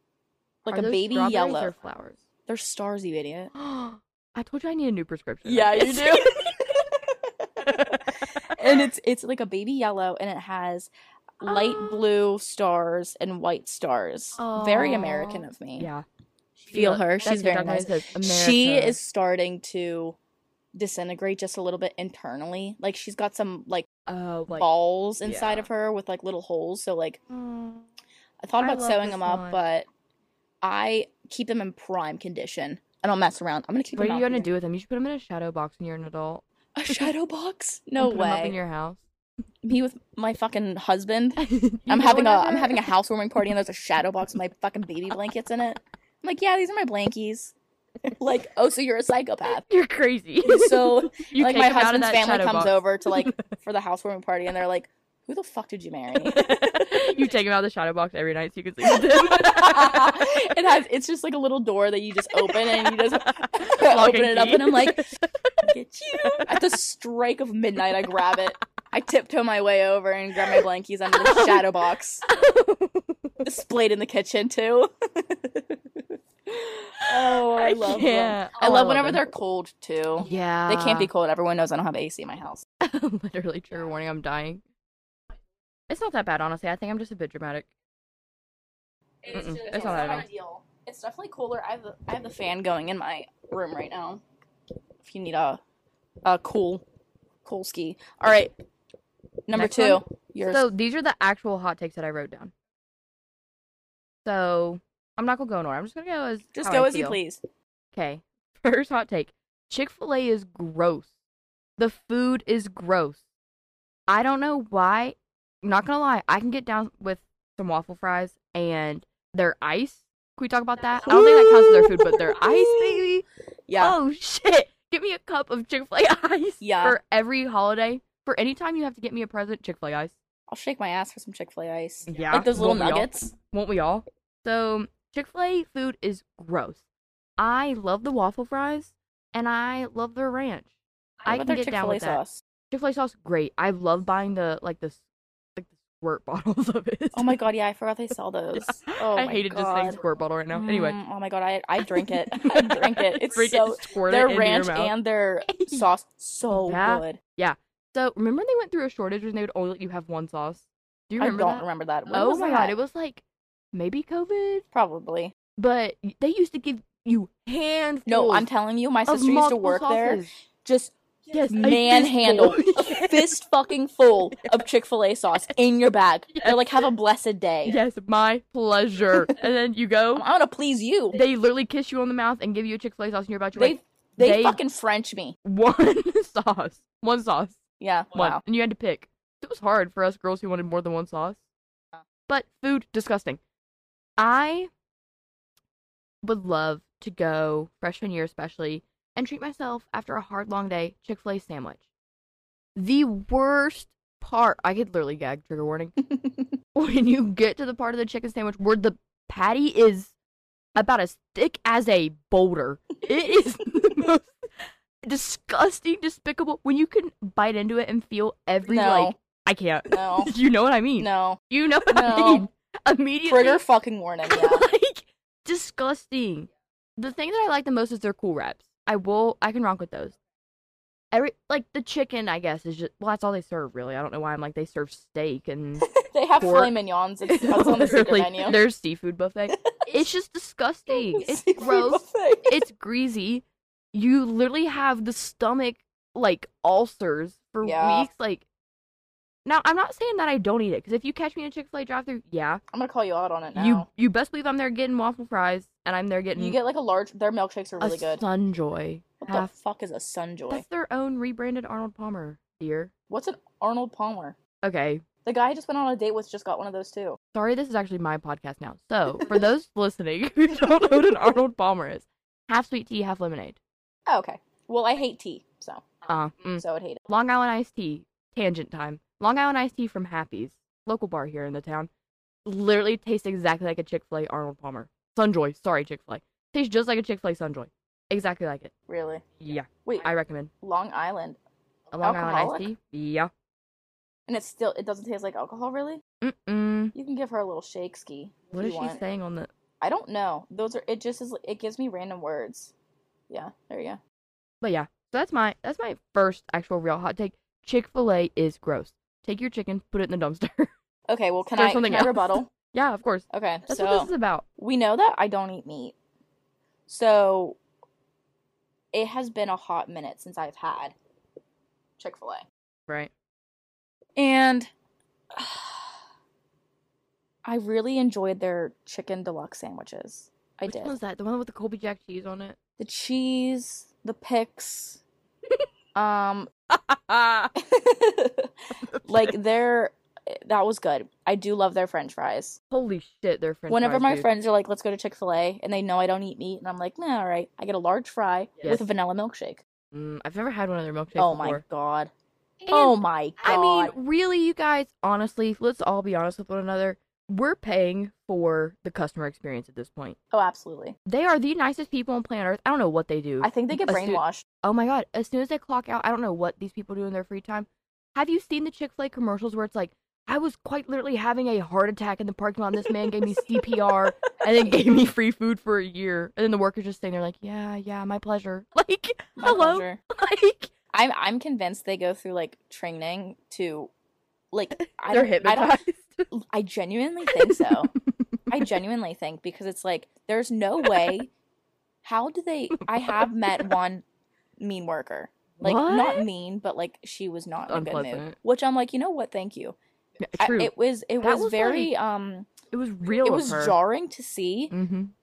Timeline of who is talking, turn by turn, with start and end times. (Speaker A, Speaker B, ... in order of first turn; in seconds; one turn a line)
Speaker A: 0.7-1.7
Speaker B: 0.7-2.2
Speaker A: 2.5-3.5
Speaker B: 3.5-6.8
Speaker A: 5.5-15.9
Speaker B: 7.6-8.8
Speaker B: 11.4-12.0
Speaker B: 14.4-16.0
Speaker A: 16.6-20.1
Speaker B: 16.7-19.0
Speaker A: 20.7-23.9
Speaker B: 24.1-24.7
Speaker A: 24.5-27.2
Speaker B: 25.2-25.7
Speaker B: 27.3-27.9
Speaker A: 28.4-29.9
Speaker B: 28.6-29.6
Speaker A: 30.6-34.5
Speaker B: 34.0-37.1
Speaker A: 36.7-38.5
Speaker B: 38.0-39.0
Speaker A: 39.6-49.6
Speaker B: 41.4-42.9
Speaker B: 49.5-53.4
Speaker A: 50.4-57.1
Speaker B: 56.1-60.5
Speaker A: 58.8-65.1
Speaker B: 62.4-65.2
Speaker A: 65.6-72.2
Speaker B: 66.2-66.6
Speaker B: 67.9-68.3
Speaker B: 71.1-71.7
Speaker B: 72.3-73.4
Speaker A: 73.4-82.6
Speaker B: 77.1-79.2
Speaker B: 80.2-81.1
Speaker B: 82.8-84.6
Speaker B: 85.9-87.7
Speaker A: 89.2-94.2
Speaker B: 89.3-90.3
Speaker A: 95.0-95.6
Speaker A: 96.2-96.8
Speaker A: 97.4-98.5
Speaker A: 99.5-100.7
Speaker B: 99.5-102.5
Speaker B: 104.2-107.2
Speaker A: 106.5-107.4
Speaker B: 107.9-111.1
Speaker B: 111.8-113.2
Speaker B: 114.1-123.2
Speaker A: 121.0-123.0
Speaker A: 123.7-124.0
Speaker B: 123.8-130.2
Speaker A: 126.6-127.0
Speaker A: 130.5-133.3
Speaker B: 132.1-136.8
Speaker B: 137.4-140.7
Speaker B: 141.2-145.0
Speaker A: 141.2-142.4
Speaker B: 145.5-147.4
Speaker A: 147.1-150.0
Speaker B: 148.6-151.0
Speaker A: 150.5-157.2
Speaker B: 151.8-154.9
Speaker B: 155.5-155.8
Speaker B: 156.5-164.6
Speaker A: 161.2-162.7
Speaker A: 164.7-165.3
Speaker B: 165.6-168.5
Speaker A: 168.1-177.8
Speaker B: 169.1-170.3
Speaker B: 171.3-173.3
Speaker B: 174.4-174.6
Speaker B: 177.6-180.2
Speaker A: 180.1-181.2
Speaker B: 181.1-184.6
Speaker A: 183.6-185.3
Speaker B: 185.4-187.6
Speaker A: 187.8-188.4
Speaker B: 188.1-191.4
Speaker B: 192.3-193.4
Speaker B: 194.2-194.7
Speaker B: 196.2-201.8
Speaker B: 202.8-205.9
Speaker A: 206.1-206.4
Speaker B: 206.7-210.1
Speaker B: 210.7-223.6
Speaker A: 218.7-219.2
Speaker A: 219.9-220.3
Speaker A: 221.0-222.5
Speaker A: 223.3-224.7
Speaker B: 224.3-230.2
Speaker B: 231.1-236.7
Speaker A: 235.8-238.6
Speaker B: 237.2-248.4
Speaker A: 239.5-240.0
Speaker A: 240.9-242.6
Speaker A: 247.6-248.1
Speaker B: 249.4-252.6
Speaker A: 252.7-253.8
Speaker B: 253.5-256.6
Speaker A: 256.4-258.2
Speaker B: 257.8-259.5
Speaker A: 259.2-260.6
Speaker B: 260.5-262.9
Speaker A: 263.1-264.4
Speaker B: 264.6-265.0
Speaker A: 265.2-267.2
Speaker B: 267.3-273.6
Speaker A: 274.1-275.9
Speaker B: 276.1-281.9
Speaker A: 276.6-277.0
Speaker B: 282.4-288.7
Speaker A: 288.9-289.2
Speaker B: 289.4-290.5
Speaker A: 290.6-291.4
Speaker B: 291.9-293.3
Speaker A: 292.0-292.7
Speaker A: 294.3-296.0
Speaker B: 296.2-296.9
Speaker A: 296.9-299.0
Speaker B: 298.5-299.5
Speaker A: 299.8-302.7
Speaker A: 303.3-304.0
Speaker B: 304.6-310.7
Speaker A: 311.1-312.5
Speaker B: 311.5-314.4
Speaker A: 313.3-315.9
Speaker A: 316.9-317.6
Speaker A: 318.9-320.9
Speaker A: 322.0-322.4
Speaker A: 324.2-324.7
Speaker A: 325.3-325.8
Speaker A: 327.4-330.9
Speaker B: 330.7-332.6
Speaker A: 332.8-335.0
Speaker A: 335.9-336.5
Speaker B: 336.7-337.5
Speaker A: 337.5-342.6
Speaker B: 338.8-339.4
Speaker B: 342.7-344.3
Speaker A: 343.7-349.6
Speaker B: 348.6-348.9
Speaker B: 349.9-351.6
Speaker A: 351.1-352.1
Speaker A: 352.7-353.9
Speaker B: 352.7-360.1
Speaker A: 360.3-360.9
Speaker B: 361.1-380.7
Speaker A: 363.4-364.4
Speaker A: 373.4-373.9
Speaker A: 379.4-380.0
Speaker A: 380.9-383.9
Speaker A: 384.5-385.8
Speaker B: 384.8-386.3
Speaker A: 386.3-387.9
Speaker B: 387.2-388.7
Speaker A: 388.5-391.3
Speaker B: 390.8-391.2
Speaker A: 392.0-394.0
Speaker B: 392.8-393.7
Speaker A: 394.6-399.8
Speaker B: 395.6-396.3
Speaker B: 397.7-398.4
Speaker B: 400.2-401.9
Speaker A: 400.4-402.5
Speaker B: 402.7-403.8
Speaker A: 403.2-404.7
Speaker B: 404.7-405.1